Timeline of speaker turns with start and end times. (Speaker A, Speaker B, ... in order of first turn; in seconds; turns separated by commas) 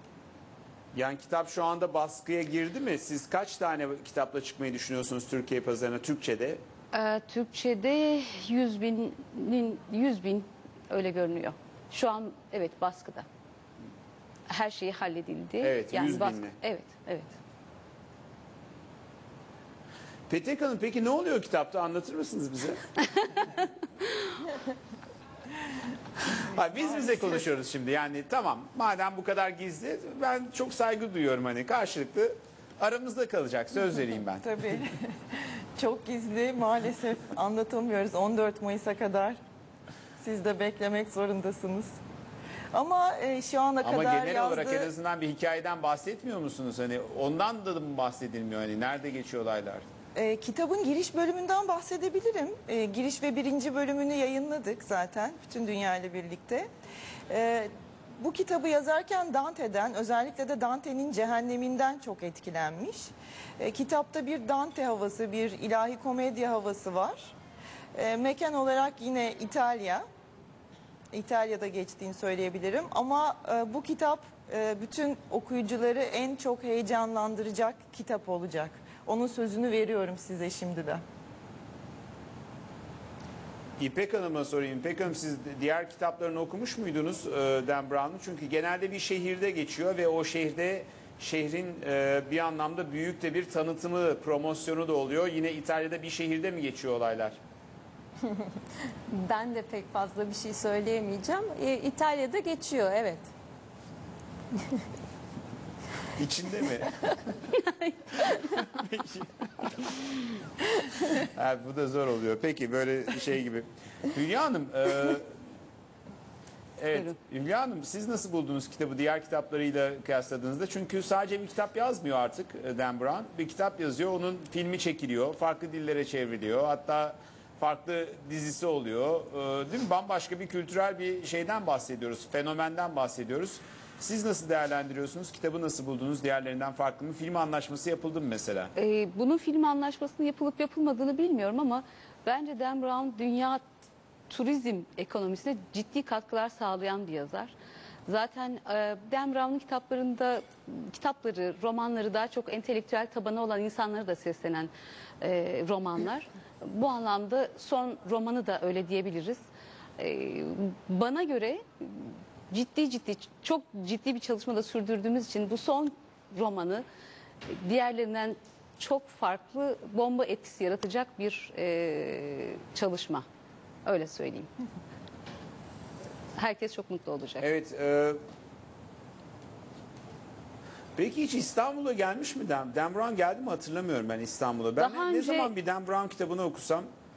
Speaker A: 0.9-6.6, Speaker B: 6.9-13.3, Speaker B: 14.5-17.3, Speaker A: 15.6-16.6, Speaker A: 20.3-22.8, Speaker A: 26.3-34.4, Speaker C: 34.4-35.1, Speaker C: 35.8-39.4, Speaker C: 40.2-41.9, Speaker C: 42.7-44.9, Speaker A: 43.8-49.9, Speaker C: 50.1-56.7, Speaker C: 57.3-67.3, Speaker C: 68.0-70.0, Speaker C: 71.1-81.0, Speaker A: 83.8-97.4, Speaker D: 99.1-103.3, Speaker A: 106.2-107.2, Speaker B: 107.6-107.9, Speaker A: 108.2-109.9, Speaker A: 111.1-115.3, Speaker A: 116.8-138.7, Speaker B: 138.8-143.6, Speaker B: 144.3-147.6, Speaker B: 148.1-159.4, Speaker B: 160.0-166.8, Speaker B: 167.5-173.2, Speaker B: 173.9-174.5, Speaker B: 176.4-177.4, Speaker A: 177.4-178.2, Speaker A: 181.0-186.9, Speaker B: 184.8-185.5